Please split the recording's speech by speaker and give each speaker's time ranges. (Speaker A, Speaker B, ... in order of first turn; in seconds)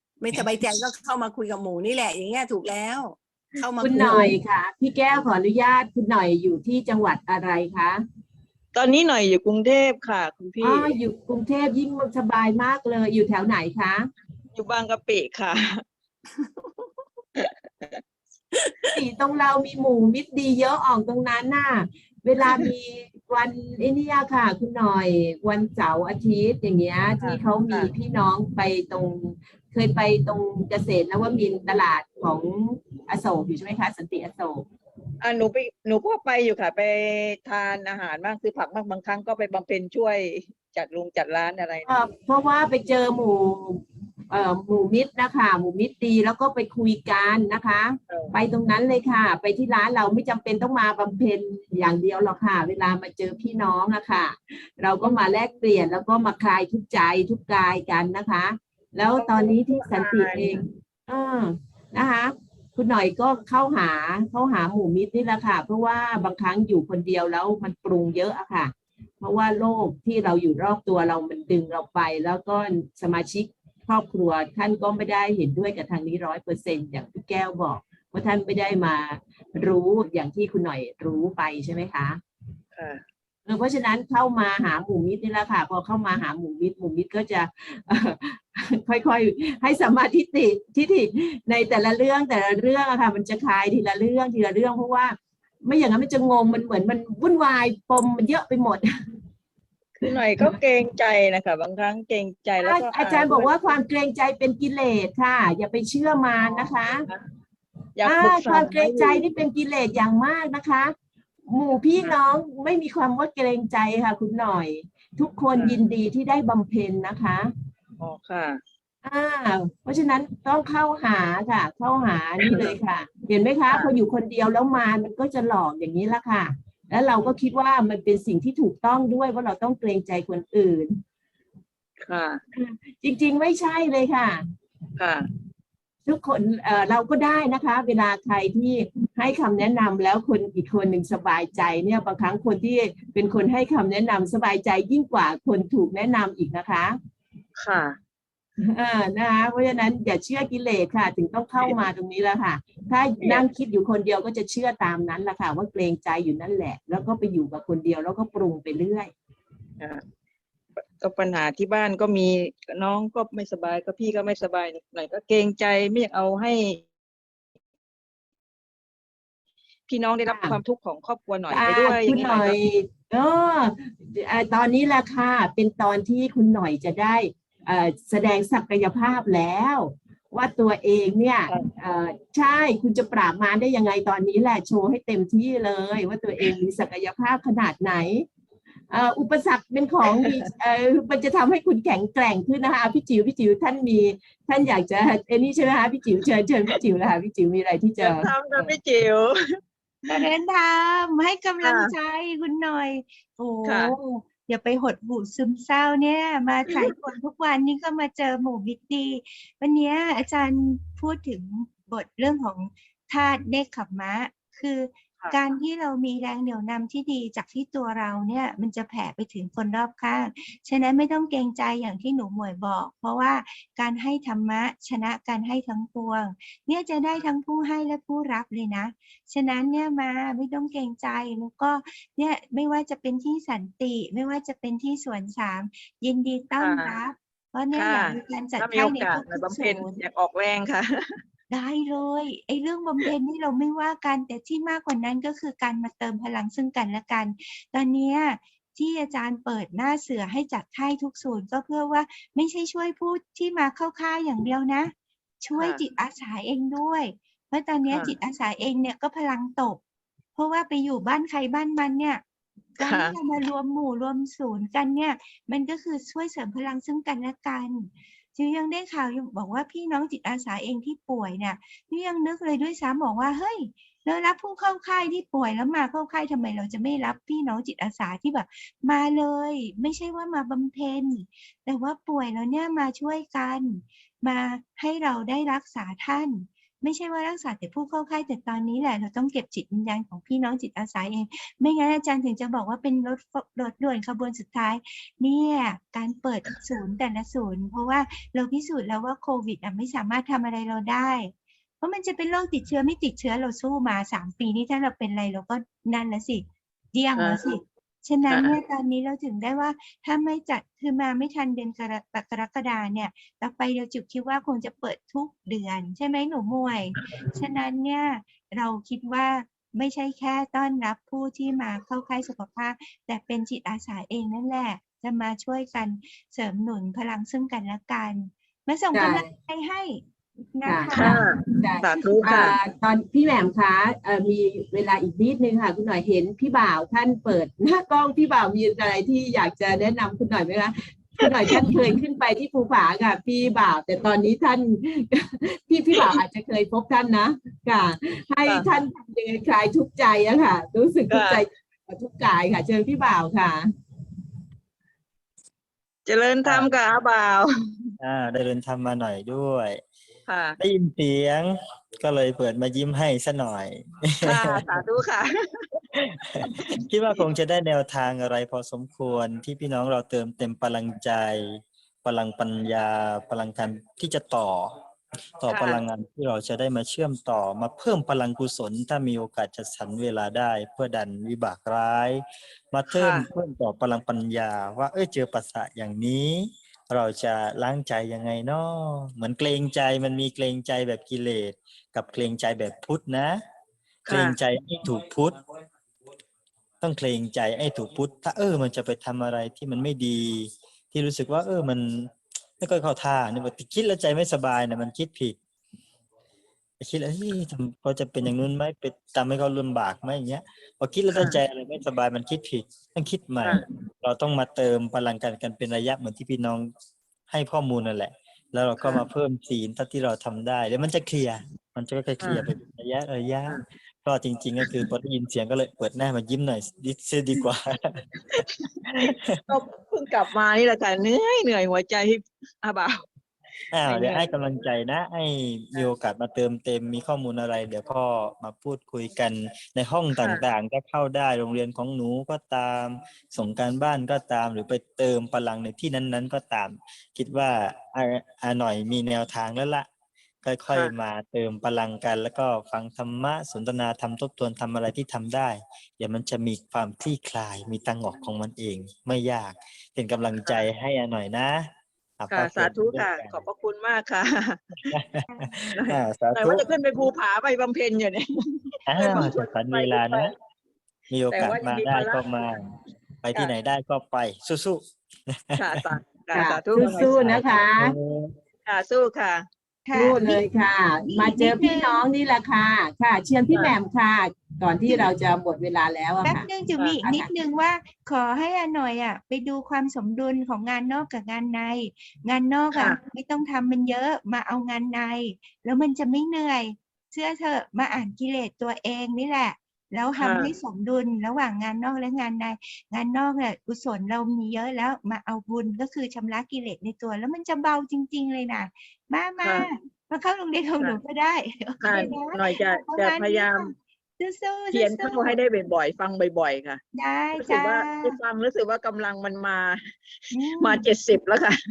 Speaker A: 0.2-4.3, 16.4-16.9, 18.5-19.0
Speaker B: 3.8-8.0, 10.6-14.1, 18.9-34.6, 41.8-82.2, 83.5-98.9, 102.6-107.0, 108.0-110.9, 111.5-117.5, 119.0-131.0, 132.5-134.4, 136.1-147.0, 148.6-159.1, 170.2-170.6, 171.5-188.2, 188.9-198.8, 328.9-329.3, 330.6-353.7, 476.3-477.9, 479.9-486.4, 487.0-487.3
Speaker C: 8.7-10.9, 14.5-15.7, 17.4-18.0, 27.2-27.9, 35.2-41.9, 59.2-60.6, 82.8-83.0, 100.0-103.8, 106.4-107.2, 108.0-109.2, 118.0-118.6, 122.5-122.7, 123.7-123.9, 132.0-132.4, 135.0-135.2, 147.6-148.0, 161.0-166.9, 169.9-172.6, 198.0-199.3, 201.6-201.9, 203.6-203.9, 236.6-237.0, 237.7-240.9, 257.9-258.1, 262.8-263.1, 307.1-307.6, 308.3-308.6, 317.0-317.3, 330.9-332.6, 341.3-341.7, 351.1-351.4, 356.1-357.5, 360.3-360.6, 364.2-365.3, 375.5-375.8, 382.9-383.2, 394.1-394.4, 411.1-411.4, 418.8-419.1, 422.2-422.5, 429.5-433.0, 433.8-434.3, 440.1-440.4, 462.3-464.9, 465.7-468.2, 468.8-470.3, 471.3-472.4, 475.6-477.1, 478.6-479.4, 492.7-493.0, 500.1-500.5, 509.4-509.7, 511.8-513.7, 514.7-516.8, 517.4-519.8, 520.4-521.5
Speaker D: 200.0-240.0, 241.5-259.8, 260.4-262.2, 262.8-330.0, 330.5-331.2, 479.9-480.4, 481.1-482.0, 486.2-515.3, 516.9-518.1, 520.3-520.9
Speaker E: 356.4-356.7, 358.0-359.8, 360.6-364.6, 365.9-374.7, 375.4-393.4, 394.1-395.4, 396.8-405.4, 406.8-416.7, 417.3-428.0, 429.0-429.4, 433.7-449.9, 450.4-463.4, 464.9-466.6, 468.9-470.3, 471.1-475.8, 476.8-478.3